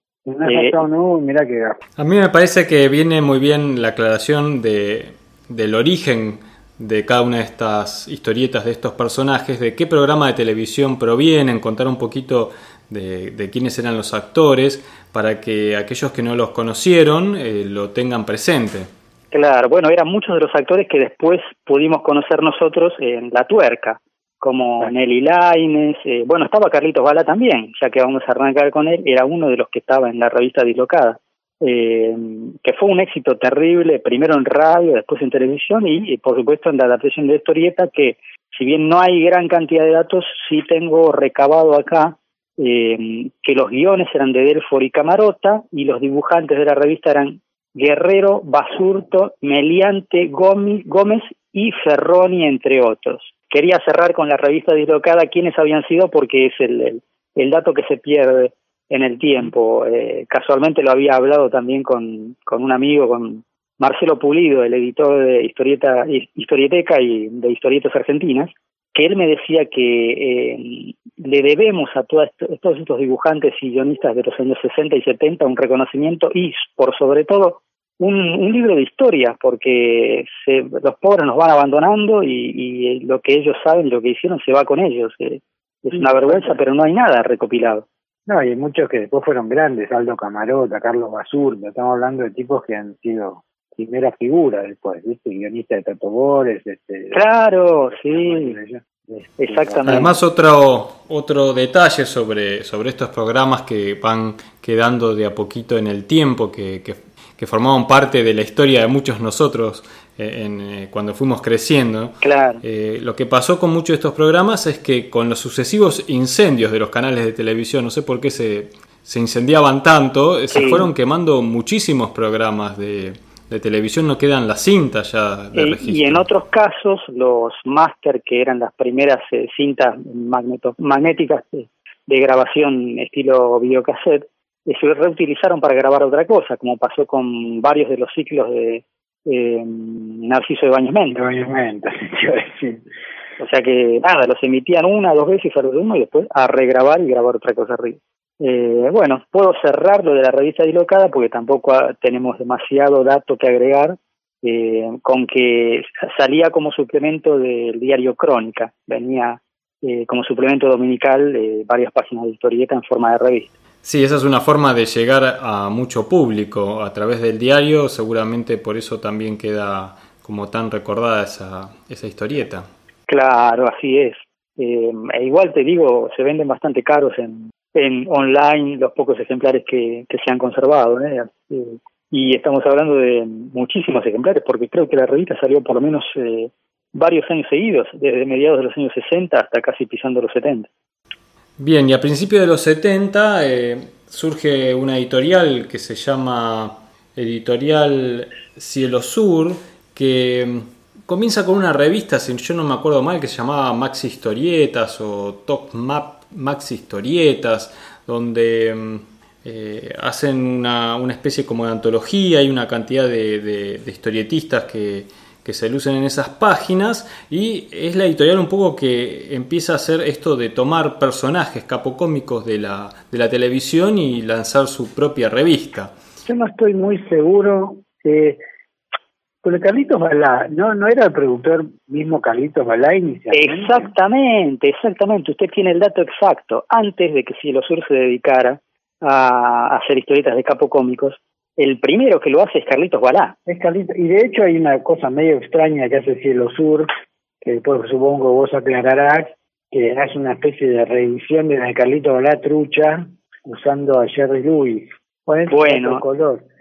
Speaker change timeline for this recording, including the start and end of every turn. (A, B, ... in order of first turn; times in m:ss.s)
0:00.3-0:01.8 A
0:00.4-0:00.8 B
0:02.0-0:18.9 C
0:19.3-1:27.9 B
1:26.0-1:26.6 A
1:28.3-1:37.2 A
1:37.1-1:38.6 B
1:38.0-1:40.0 A
1:39.4-1:40.1 B
1:39.9-2:06.2 C
1:52.2-1:52.6 B
2:00.5-2:00.9 B
2:05.6-2:21.2 B
2:21.1-2:22.8 A
2:23.4-2:43.5 B
2:43.8-2:52.7 C
2:53.1-3:10.7 B
3:11.6-3:46.0 C
3:46.2-3:48.4 A
3:49.4-3:53.9 A
3:53.3-4:03.4 B
4:03.5-4:06.9 A
4:07.4-4:16.4 A
4:15.5-4:16.0 B